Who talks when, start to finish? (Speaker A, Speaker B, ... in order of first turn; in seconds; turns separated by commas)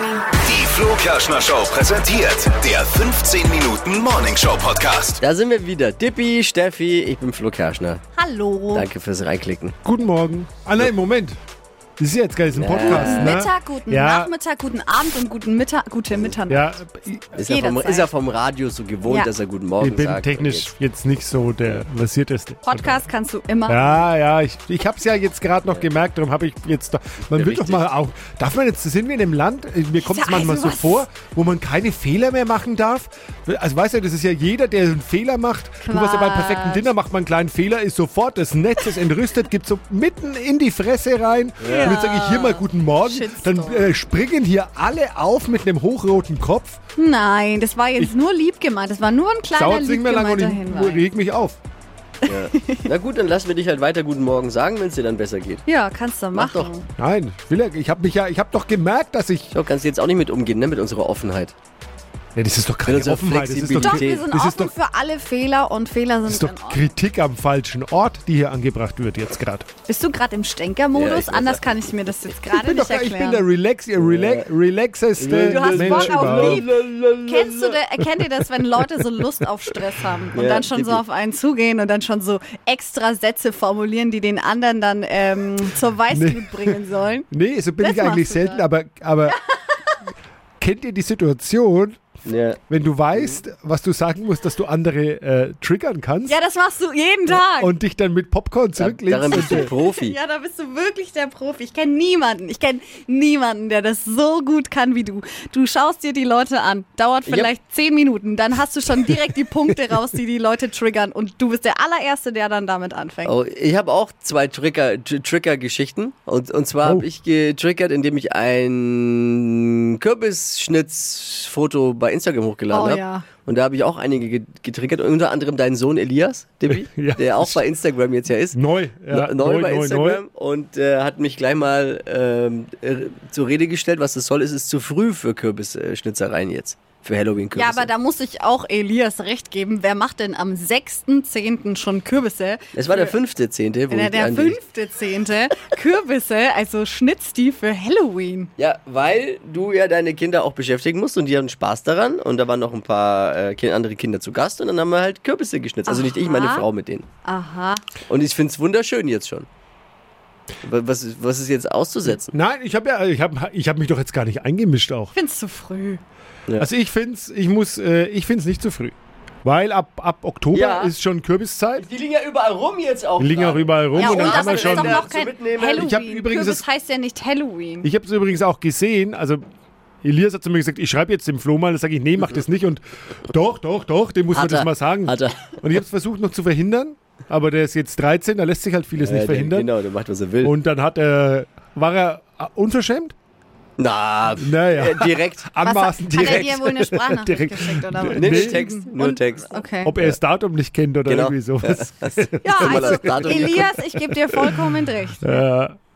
Speaker A: 0.4-5.2, Speaker B: 5.2-8.0, Speaker C: 8.2-8.9, Speaker B: 8.7-9.8, Speaker D: 9.8-11.4, Speaker D: 12.0-14.3, Speaker B: 12.6-13.4, Speaker C: 12.8-16.7, Speaker D: 16.5-17.4, Speaker B: 17.4-20.7, Speaker C: 17.4-18.1, Speaker D: 19.8-23.1, Speaker C: 22.7-24.0, Speaker D: 23.7-46.8, Speaker B: 27.3-27.9, Speaker C: 30.0-31.0, Speaker C: 35.9-36.9, Speaker B: 41.6-42.0, Speaker C: 41.6-44.0, Speaker C: 47.0-51.0, Speaker D: 49.5-51.6, Speaker B: 52.3-55.6, Speaker C: 52.3-52.9, Speaker C: 55.7-56.9, Speaker B: 56.4-56.7, Speaker D: 57.0-59.5, Speaker B: 59.5-61.5, Speaker D: 62.4-64.7, Speaker B: 62.9-64.3, Speaker C: 63.8-66.9, Speaker D: 66.3-69.7, Speaker C: 69.9-73.5, Speaker B: 70.9-71.7, Speaker D: 72.5-76.7, Speaker B: 74.0-74.5, Speaker B: 75.2-77.8, Speaker C: 75.4-76.7, Speaker C: 77.3-87.3, Speaker B: 80.3-81.0, Speaker D: 86.1-86.8, Speaker D: 87.3-89.4, Speaker C: 87.8-88.6, Speaker C: 89.3-90.0, Speaker D: 90.6-92.0, Speaker B: 92.3-92.6, Speaker D: 92.7-96.4, Speaker C: 96.3-97.7, Speaker D: 97.3-99.7, Speaker B: 98.8-100.2, Speaker C: 99.3-113.3, Speaker B: 113.2-137.9, Speaker C: 122.7-123.3, Speaker D: 126.7-127.6, Speaker D: 128.5-130.2, Speaker C: 137.6-143.2, Speaker B: 142.7-144.6, Speaker C: 143.9-148.5, Speaker B: 148.6-157.1, Speaker C: 155.9-156.7, Speaker C: 157.2-157.8, Speaker B: 158.1-159.5, Speaker B: 160.6-162.3, Speaker D: 162.1-165.1, Speaker C: 165.1-166.0, Speaker D: 166.6-171.8, Speaker B: 170.5-170.9, Speaker B: 171.8-175.9, Speaker D: 173.2-175.0, Speaker C: 174.0-177.9, Speaker D: 175.7-176.7, Speaker D: 177.8-179.4, Speaker D: 180.0-189.7, Speaker B: 184.3-185.5, Speaker B: 189.0-190.5, Speaker D: 190.4-193.2, Speaker B: 193.8-195.5, Speaker D: 194.4-198.7, Speaker C: 195.6-199.9, Speaker B: 196.1-196.5, Speaker B: 198.1-200.2, Speaker D: 199.8-204.5, Speaker B: 201.1-203.7, Speaker C: 202.4-205.4, Speaker D: 205.2-205.8